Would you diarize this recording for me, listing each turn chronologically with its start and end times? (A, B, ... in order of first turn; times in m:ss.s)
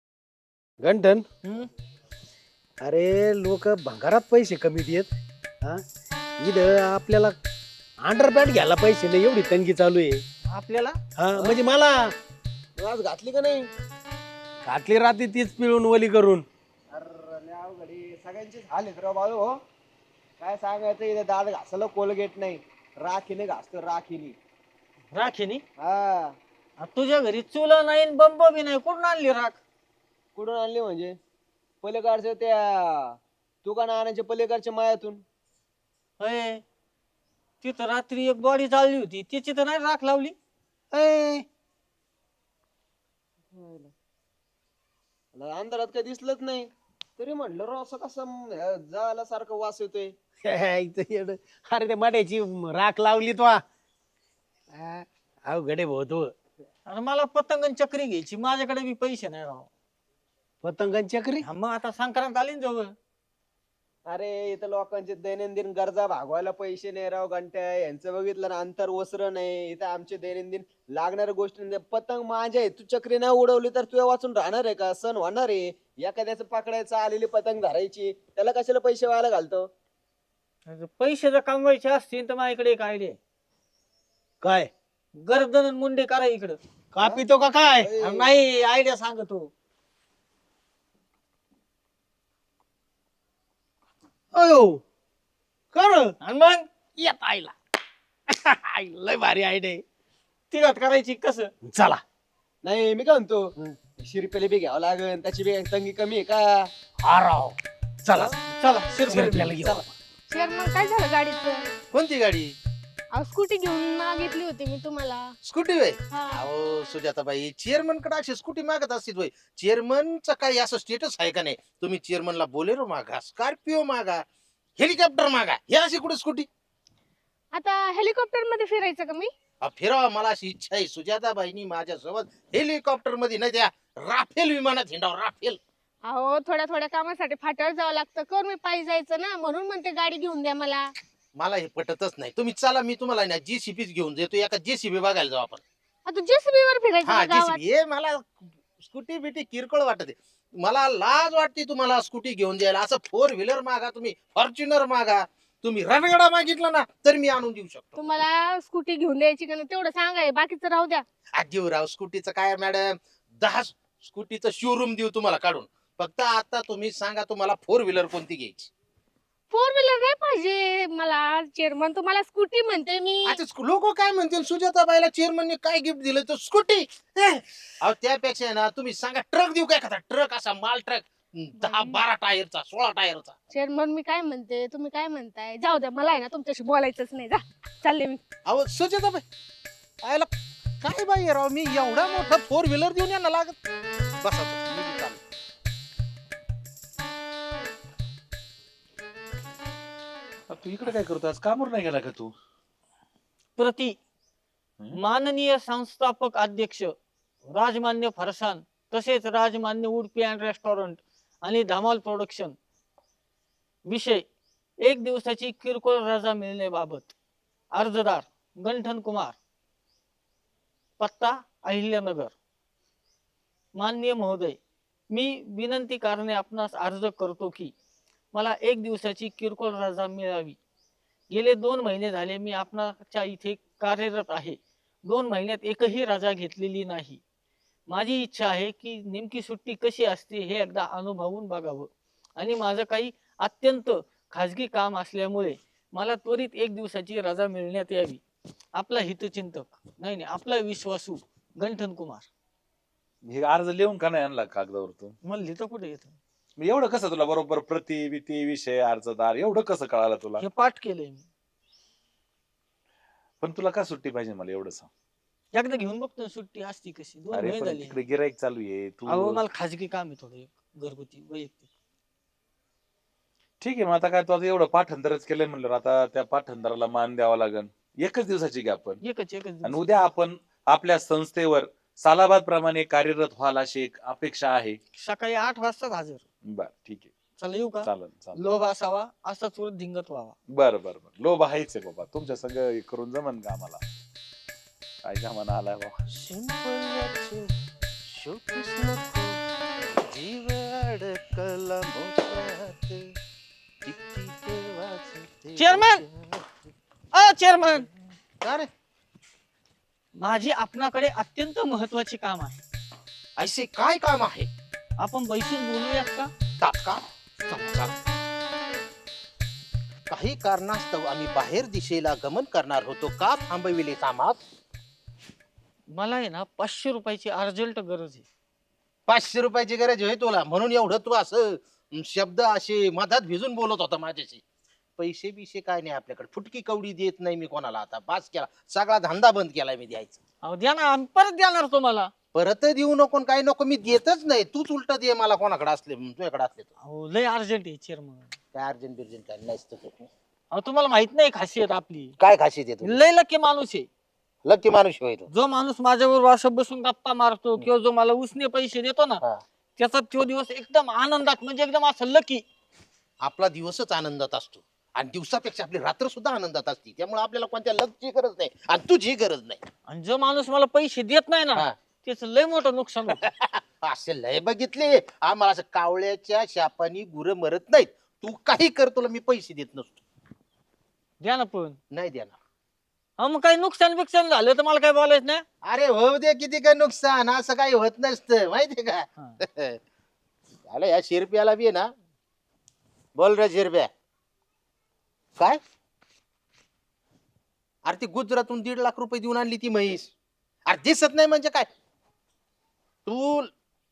0:00.8-0:01.2 A
0:01.4-0:01.7 B
0:02.8-0:05.0 A
0:06.4-0:07.3 A
0:08.1-0:10.1 A
0:10.5-0:11.0 B
0:11.3-0:11.6 C
0:12.8-0:13.6 C
0:14.9-0:16.4 A
0:16.9-0:19.5 C
0:20.4-0:24.4 C
0:25.1-0:25.6 B
0:25.8-0:26.3 C
0:26.8-0:29.6 B
0:30.4-0:31.2 C
0:31.8-0:35.2 C
0:36.2-0:36.6 B
0:37.6-0:40.3 B
0:40.9-0:41.4 D
0:43.5-0:43.9 C
0:45.3-0:50.1 C
0:50.5-0:53.6 A
0:56.9-0:59.7 B
1:00.6-1:01.4 A
1:01.4-1:02.9 B
1:04.1-1:19.7 C
1:20.6-1:23.2 B
1:25.2-1:26.6 B
1:27.0-1:28.3 C
1:28.0-1:29.5 B
1:35.8-1:36.1 D
1:36.2-1:36.6 B
1:37.0-1:37.5 D
1:38.3-1:39.8 D
1:40.5-1:41.5 B
1:41.6-1:42.0 D
1:42.6-1:46.7 C
1:47.0-1:48.3 D
1:48.5-1:49.8 B
1:49.1-1:49.8 D
1:50.3-1:51.6 E
1:51.9-1:52.5 D
1:53.1-1:55.2 E
1:55.4-2:04.2 D
1:56.1-1:56.4 E
2:04.8-2:06.5 D
2:07.5-2:09.3 E
2:09.6-2:15.6 D
2:16.0-2:20.9 E
2:21.4-2:25.6 D
2:26.0-2:27.6 E
2:27.0-2:38.1 D
2:38.0-2:41.0 E
2:41.4-2:48.7 D
2:49.5-2:53.4 E
2:53.2-3:03.4 D
3:01.6-3:02.0 E
3:03.5-3:08.2 E
3:08.5-3:09.2 D
3:10.8-3:13.6 D
3:14.2-3:15.2 D
3:20.5-3:22.3 F
3:23.6-3:23.9 B
3:24.9-3:26.9 B
3:27.4-3:32.5 B
3:33.9-3:34.2 B
3:34.8-3:37.1 B
3:37.7-3:39.4 B
3:41.0-3:42.3 B
3:43.8-3:44.6 B
3:45.1-3:47.7 B
3:48.3-3:50.6 B
3:51.3-3:57.2 B
3:57.9-4:08.2 B
4:08.8-4:12.3 B
4:13.2-4:15.2 F
4:15.2-4:16.2 B
4:16.6-4:20.4 F
4:20.4-4:21.2 B
4:23.4-4:24.9 F
4:25.5-4:28.0 B
4:27.3-4:29.4 F
4:29.1-4:31.7 B
4:33.6-4:39.0 F
4:39.0-4:39.9 B
4:39.6-4:44.8 F
4:44.9-4:46.2 B
4:46.4-4:47.1 F
4:47.4-4:50.4 B
4:47.8-4:48.4 F
4:50.5-4:53.8 F
4:55.0-4:56.0 F
4:56.1-4:57.5 D
4:58.1-4:59.4 D
5:00.0-5:03.1 D
5:03.8-5:06.7 D
5:05.6-5:06.0 B
5:07.1-5:07.9 B
5:08.4-5:08.7 D
5:10.2-5:12.6 B
5:13.4-5:14.5 D
5:15.0-5:16.3 B
5:16.6-5:17.9 D
5:20.1-5:24.4 D
5:25.9-5:28.2 B
5:29.1-5:34.4 D
5:35.0-5:40.2 D
5:40.4-5:42.1 B
5:42.3-5:46.7 D
5:46.8-5:48.3 B
5:48.5-5:50.1 D
5:50.5-5:52.1 B
5:52.2-5:53.0 D
5:52.8-5:53.9 B
5:54.4-5:55.3 D
5:55.3-5:59.2 B
5:59.8-6:02.4 B
6:03.2-6:09.6 D
6:09.9-6:13.2 B
6:13.2-6:20.0 D
6:21.2-6:21.8 B
6:21.9-6:22.4 D
6:23.2-6:25.4 B
6:25.6-6:29.8 D
6:30.7-6:31.9 D
6:33.2-6:33.9 D
6:37.8-6:40.1 D
6:40.7-6:41.7 D
6:43.0-6:43.5 D